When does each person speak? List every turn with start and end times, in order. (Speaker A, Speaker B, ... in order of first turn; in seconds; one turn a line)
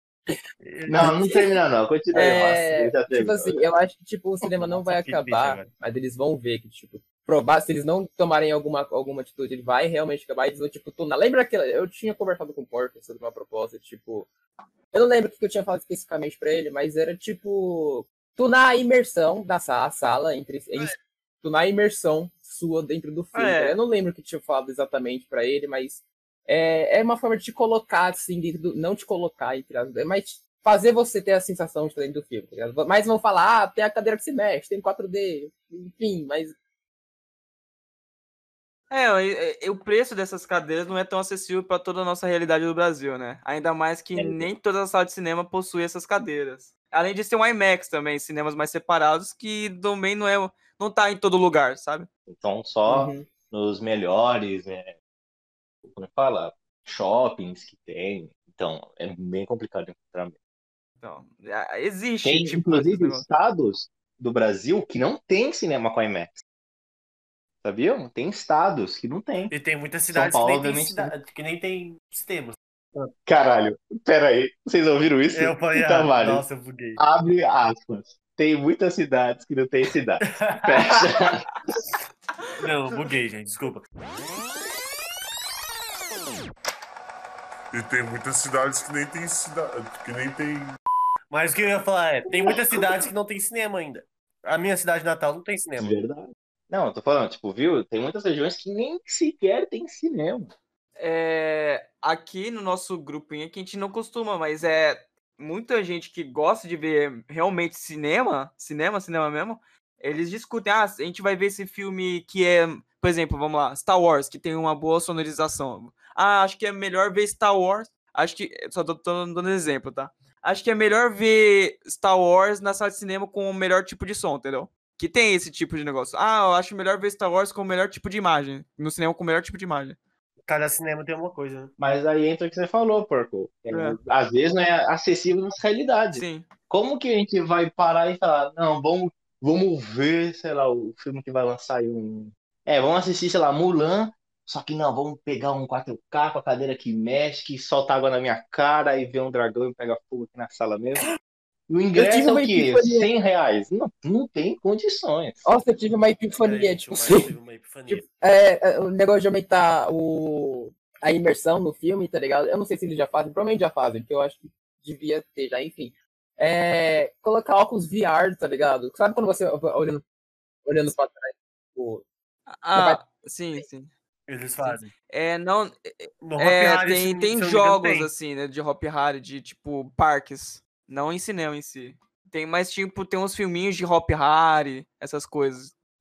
Speaker A: 0.6-1.2
Speaker B: 0.9-3.6
Speaker C: 1.0-1.4
Speaker C: 2.1-14.3
Speaker A: 4.8-5.7
Speaker C: 14.9-36.6
Speaker D: 23.3-23.8
Speaker D: 38.9-52.1
Speaker B: 44.1-44.5
Speaker B: 52.3-55.0
Speaker C: 52.9-53.3
Speaker B: 55.9-60.4
Speaker D: 61.0-63.3
Speaker B: 62.2-66.4
Speaker B: 67.6-69.5
Speaker A: 69.5-72.6
Speaker B: 70.1-71.2
Speaker B: 73.0-76.5
Speaker A: 75.3-77.0
Speaker B: 77.0-81.8
Speaker A: 80.4-81.0
Speaker A: 82.6-83.8
Speaker E: 87.7-90.7
Speaker A: 91.3-96.0
Speaker B: 95.8-100.5
Speaker D: 101.0-130.0
Speaker A: 130.5-131.7
Speaker B: 131.8-151.1
Speaker D: 133.7-134.0
Speaker D: 136.1-136.5
Speaker B: 151.7-155.4
Speaker C: 151.9-153.1
Speaker C: 155.4-157.3
Speaker A: 156.4-158.0
Speaker C: 157.9-170.0
Speaker C: 170.7-172.1
Speaker D: 172.5-173.9
Speaker C: 172.8-173.0
Speaker A: 174.3-174.9
Speaker D: 174.6-185.7
Speaker A: 176.2-178.1